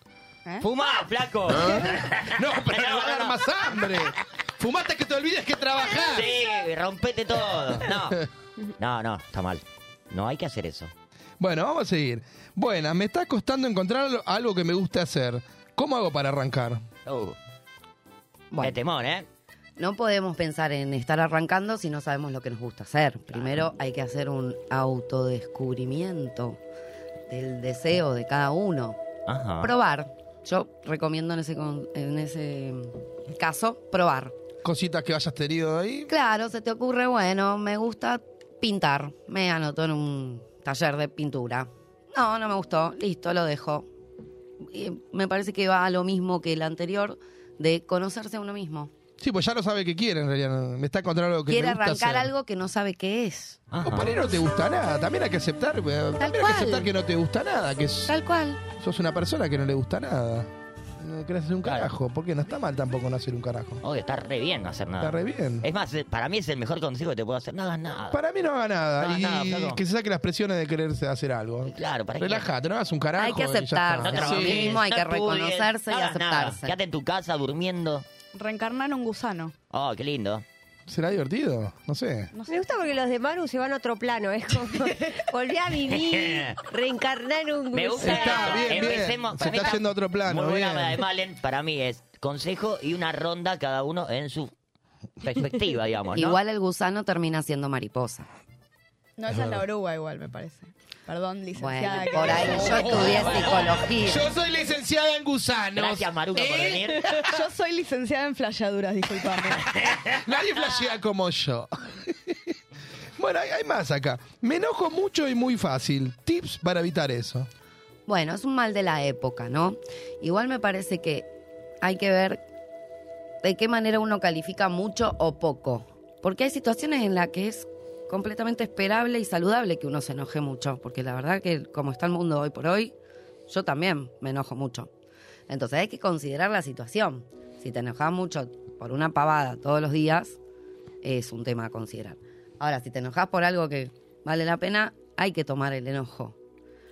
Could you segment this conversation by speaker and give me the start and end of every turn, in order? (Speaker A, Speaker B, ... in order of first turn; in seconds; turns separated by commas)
Speaker A: 0.6-3.5, Speaker B: 1.5-6.3, Speaker A: 5.9-8.3, Speaker A: 8.8-10.9, Speaker B: 11.4-16.8, Speaker A: 17.1-17.4, Speaker C: 18.5-18.8, Speaker A: 18.6-19.3, Speaker C: 19.8-26.6, Speaker C: 27.3-29.0, Speaker A: 29.3-29.7, Speaker C: 29.6-34.4, Speaker B: 34.6-36.1, Speaker C: 36.1-43.9, Speaker C: 44.6-48.9, Speaker B: 49.2-52.3, Speaker C: 51.5-53.6, Speaker A: 53.7-54.1, Speaker B: 53.8-58.1, Speaker C: 56.2-56.9, Speaker C: 58.1-58.6, Speaker B: 58.7-63.8, Speaker A: 61.6-61.9, Speaker A: 63.8-68.2, Speaker B: 65.0-65.7, Speaker B: 68.1-74.8, Speaker A: 69.0-69.8, Speaker A: 71.7-72.5, Speaker C: 73.2-76.8, Speaker A: 74.1-78.0, Speaker D: 78.3-79.5, Speaker A: 79.7-80.4, Speaker B: 80.9-82.3, Speaker D: 82.3-82.6, Speaker E: 82.5-88.7, Speaker A: 85.9-86.6, Speaker A: 87.7-94.5, Speaker B: 88.0-91.0, Speaker A: 95.2-96.4, Speaker C: 96.1-98.3, Speaker D: 99.2-102.7, Speaker B: 99.3-99.6, Speaker C: 101.6-104.2, Speaker B: 102.3-107.3, Speaker A: 102.7-103.8, Speaker A: 105.8-107.2, Speaker D: 107.2-109.8, Speaker B: 110.2-112.5, Speaker B: 113.2-117.5, Speaker C: 118.1-121.3, Speaker C: 121.8-122.4, Speaker C: 123.4-132.9, Speaker C: 133.5-134.9, Speaker C: 135.5-140.4, Speaker C: 141.0-146.3